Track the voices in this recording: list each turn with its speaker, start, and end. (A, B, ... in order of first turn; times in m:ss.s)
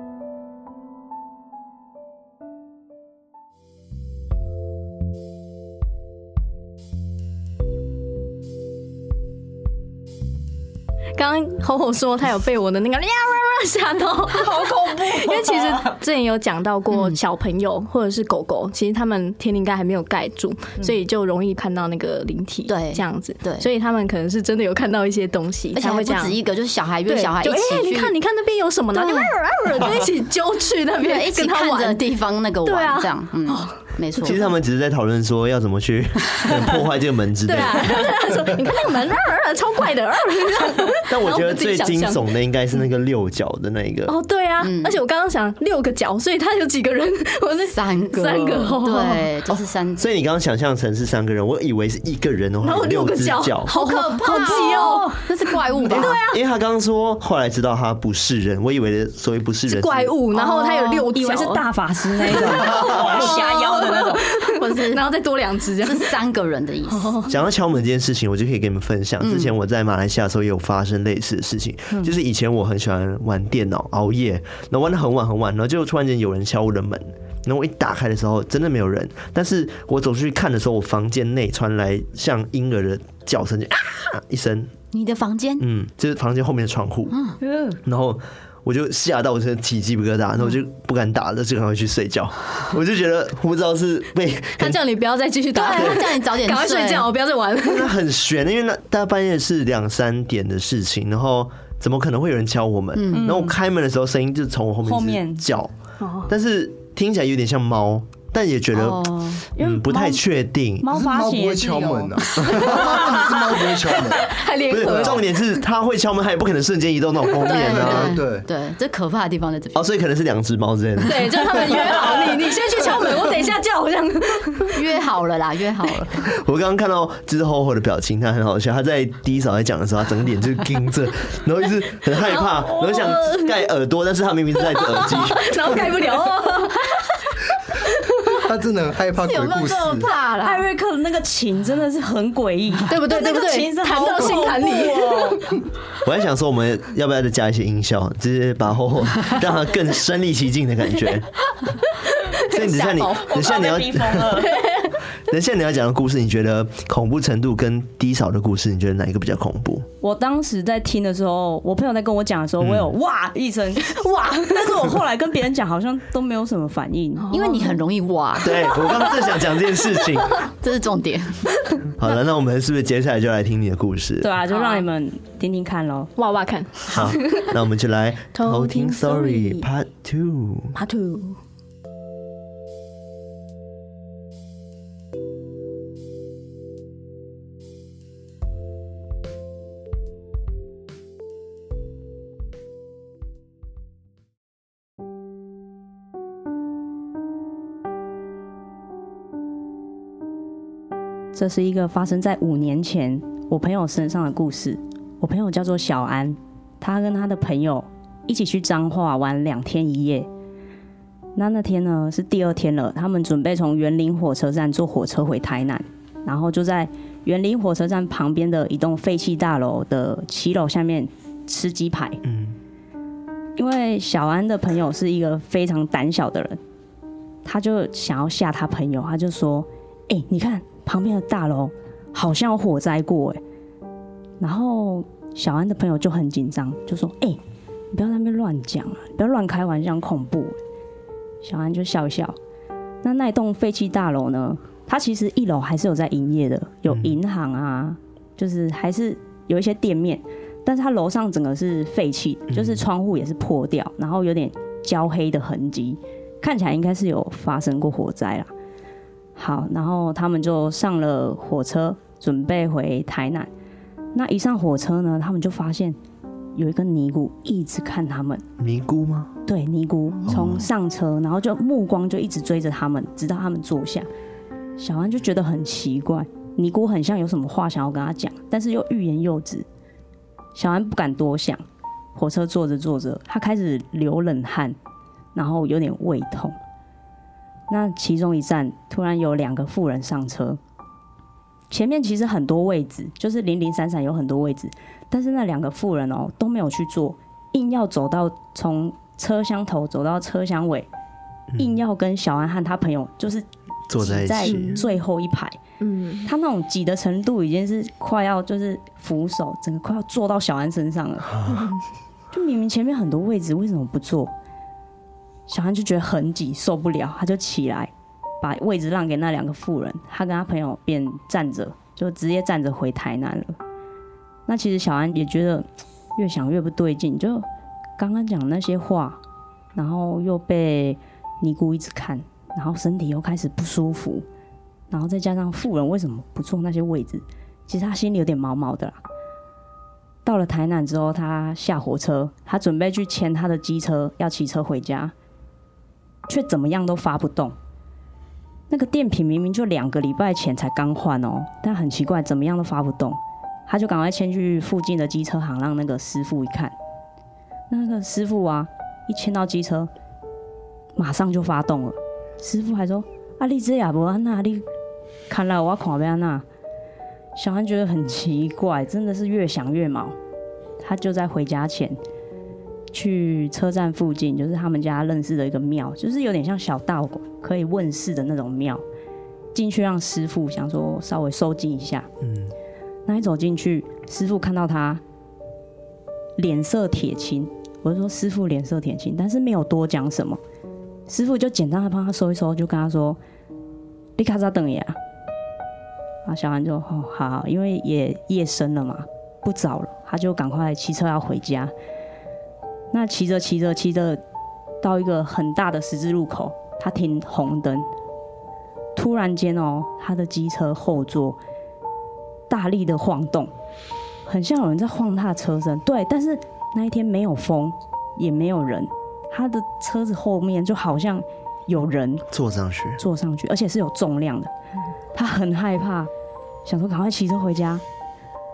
0:11.1-0:26.4 A
0:14.3-0:15.9 B
0:22.7-0:23.7 C
0:25.7-0:28.1 C
0:27.0-0:32.0 A
0:28.9-0:29.3 C
0:31.0-0:34.4 C
0:32.6-0:34.4 A
0:34.2-0:38.1 D
0:37.4-0:42.2 A
0:41.1-0:44.1 D
0:44.1-0:49.4 A
0:44.6-0:45.0 C
0:47.7-0:50.0 C
0:50.0-0:53.7 D
0:52.6-0:56.4 A
0:53.7-0:56.2 C
0:55.9-1:00.1 D
0:59.7-1:06.2 A
1:00.3-1:01.1 C
1:01.1-1:04.2 B
1:02.7-1:03.1 D
1:04.6-1:05.1 C
1:05.8-1:07.2 C
1:06.9-1:07.3 A
1:07.2-1:24.7 D
1:09.2-1:09.5 C
1:24.9-1:25.6 C
1:25.6-1:27.2 D
1:27.1-1:27.4 C
1:27.8-1:34.8 D
1:34.6-1:37.9 A
1:35.5-1:37.1 C
1:37.6-1:45.7 D
1:42.9-1:43.5 C
1:43.1-1:43.5 B
1:44.8-1:45.4 B
1:46.0-1:46.3 A
1:46.3-1:50.9 D
1:48.7-1:49.4 C
1:49.6-1:50.2 B
1:50.8-1:53.1 B
1:50.9-1:54.4 E
1:52.7-1:55.4 A
1:54.7-1:58.2 D
1:57.4-1:57.8 A
1:57.4-1:59.9 C
1:57.6-1:58.4 E
1:59.7-2:02.3 D
2:01.0-2:04.8 A
2:04.7-2:06.3 C
2:06.2-2:15.7 D
2:12.4-2:13.5 A
2:14.7-2:18.4 A
2:18.3-2:20.1 E
2:19.2-2:20.5 C
2:19.8-2:20.5 A
2:20.4-2:25.4 B
2:22.9-2:25.5 A
2:26.0-2:31.3 D
2:32.0-2:33.4 A
2:32.4-2:34.6 D
2:33.2-2:34.5 B
2:34.3-2:35.0 A
2:35.3-2:39.9 D
2:40.0-2:47.3 B
2:42.6-2:42.9 D
2:47.2-2:47.8 A
2:47.3-2:48.8 C
2:48.4-2:50.4 D
2:50.6-2:51.5 C
2:52.0-2:54.3 D
2:54.2-2:56.1 B
2:54.5-2:54.8 A
2:56.2-2:57.5 A
2:56.9-3:00.8 D
2:58.3-2:59.6 A
3:00.7-3:01.4 A
3:21.3-3:30.3 B
3:31.4-3:42.2 B
3:42.2-3:42.6 D
3:43.6-3:46.6 B
3:47.4-3:53.4 B
3:54.4-3:57.4 B
3:57.9-4:00.6 B
4:01.4-4:02.4 B
4:03.0-4:18.5 B
4:12.5-4:12.8 D
4:19.4-4:23.5 B
4:24.1-4:26.0 B
4:26.5-4:28.4 B
4:28.6-4:29.3 D
4:29.4-4:34.1 B
4:30.3-4:30.7 D
4:34.8-4:39.6 B
4:40.5-4:41.6 B
4:42.1-4:44.8 B
4:45.3-4:46.6 B
4:47.7-4:50.6 B
4:51.7-5:00.9 B
5:01.6-5:03.4 B
5:03.9-5:04.8 D
5:04.0-5:05.6 B
5:04.5-5:04.9 A
5:05.8-5:06.3 A
5:06.2-5:11.4 B
5:12.3-5:14.3 B
5:15.5-5:23.6 B
5:24.5-5:27.4 B
5:28.0-5:29.2 B
5:29.7-5:34.2 B
5:34.9-5:39.0 B
5:40.2-5:45.1 B
5:46.3-5:47.5 B
5:48.7-5:56.7 B
5:57.7-5:59.9 B
6:01.0-6:04.6 B
6:05.3-6:06.4 B
6:07.4-6:10.1 B
6:10.8-6:12.0 B
6:12.9-6:18.8 B
6:19.5-6:22.1 B
6:22.2-6:22.5 D
6:23.0-6:25.0 B
6:26.4-6:30.4 B
6:31.1-6:33.2 B
6:34.2-6:35.0 B
6:36.2-6:41.7 B
6:42.9-6:44.2 B
6:44.8-6:47.9 B
6:49.0-6:51.4 B
6:52.5-6:53.5 B
6:54.2-7:02.2 B
7:02.3-7:03.0 D
7:03.0-7:04.5 B
7:05.1-7:06.1 B
7:06.6-7:07.8 B